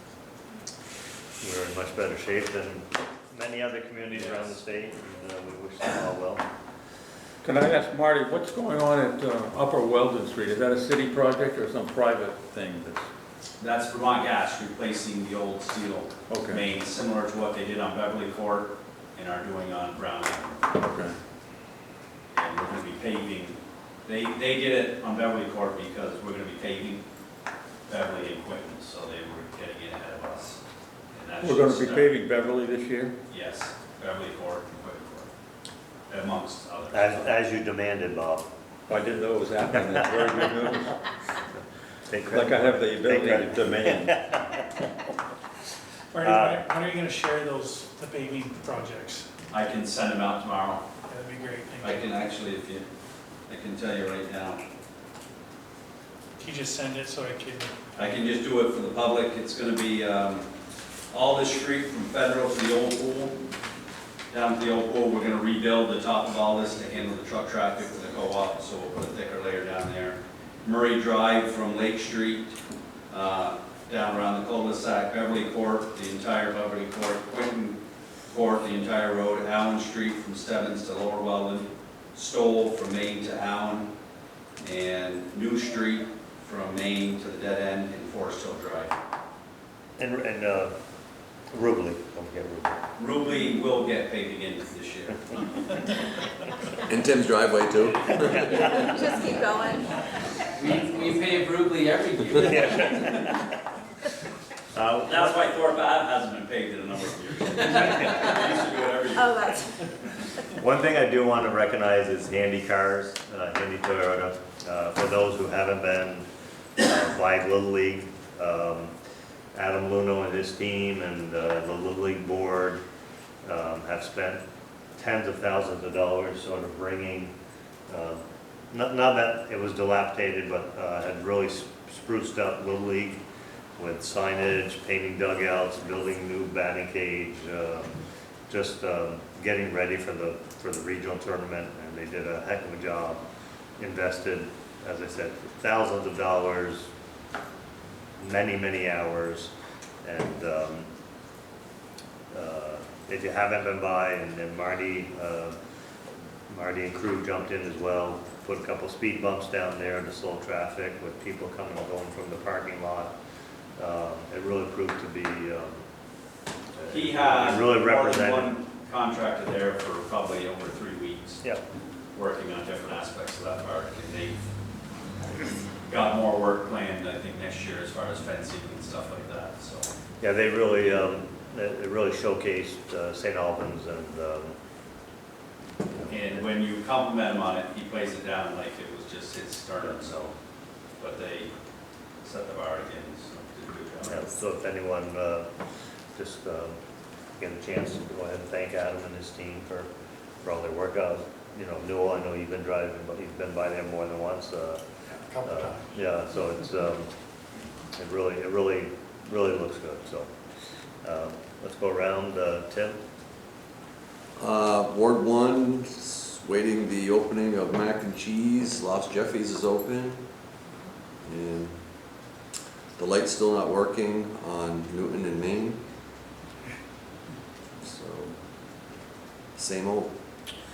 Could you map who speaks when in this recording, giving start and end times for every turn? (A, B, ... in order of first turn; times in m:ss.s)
0:01.4-0:06.4 A
0:04.2-0:04.6 B
0:07.4-0:13.1 C
0:13.6-0:20.7 B
0:16.3-0:16.6 C
0:20.8-0:21.1 C
0:22.3-0:27.0 B
0:27.9-0:30.6 B
0:31.2-0:32.2 B
0:31.4-0:33.2 C
0:33.3-0:35.3 B
0:36.1-0:37.3 B
0:36.9-0:38.5 A
0:38.9-0:41.0 C
0:39.8-0:40.5 A
0:41.6-0:44.9 A
0:42.3-0:44.1 C
0:46.1-0:49.3 D
0:46.2-0:46.6 A
0:49.5-0:50.8 B
0:51.1-0:52.1 D
0:51.8-0:52.9 B
0:53.5-0:54.6 B
0:56.4-0:57.8 D
0:58.0-1:00.5 B
1:01.1-1:03.4 B
1:04.3-1:12.5 B
1:13.1-1:17.8 B
1:18.3-1:23.9 B
1:24.6-1:29.0 B
1:30.0-1:30.7 A
1:31.5-1:32.8 A
1:33.0-1:35.5 B
1:36.9-1:38.6 E
1:38.2-1:39.0 A
1:38.5-1:39.9 F
1:40.6-1:43.0 G
1:42.3-1:43.5 A
1:44.8-1:45.5 A
1:45.0-1:49.4 B
1:47.9-1:48.2 A
1:49.2-1:49.7 F
1:50.5-1:56.3 A
1:56.8-1:58.9 A
1:59.5-2:02.8 A
2:03.4-2:04.4 A
2:05.0-2:07.3 A
2:07.9-2:08.2 A
2:08.7-2:13.2 A
2:13.8-2:18.0 A
2:18.5-2:23.2 A
2:23.8-2:26.9 A
2:28.2-2:29.5 A
2:30.0-2:30.9 A
2:32.3-2:35.6 A
2:36.5-2:43.1 A
2:43.8-2:45.9 A
2:46.8-2:48.5 A
2:46.9-2:51.4 B
2:52.1-2:54.4 B
2:55.9-2:59.9 B
3:00.2-3:04.6 A
3:05.9-3:06.4 A
3:06.1-3:10.2 B
3:09.8-3:10.3 A
3:11.0-3:11.5 B
3:12.2-3:14.4 B
3:14.1-3:15.5 A
3:16.2-3:16.8 A
3:17.4-3:19.9 A
3:20.4-3:24.8 A
3:25.3-3:25.9 D
3:25.4-3:27.1 A
3:28.0-3:30.3 A
3:31.0-3:33.0 A
3:34.4-3:40.2 E
3:41.2-3:41.8 E
3:43.0-3:45.8 E
3:47.8-3:48.3 E
3:49.6-3:50.1 E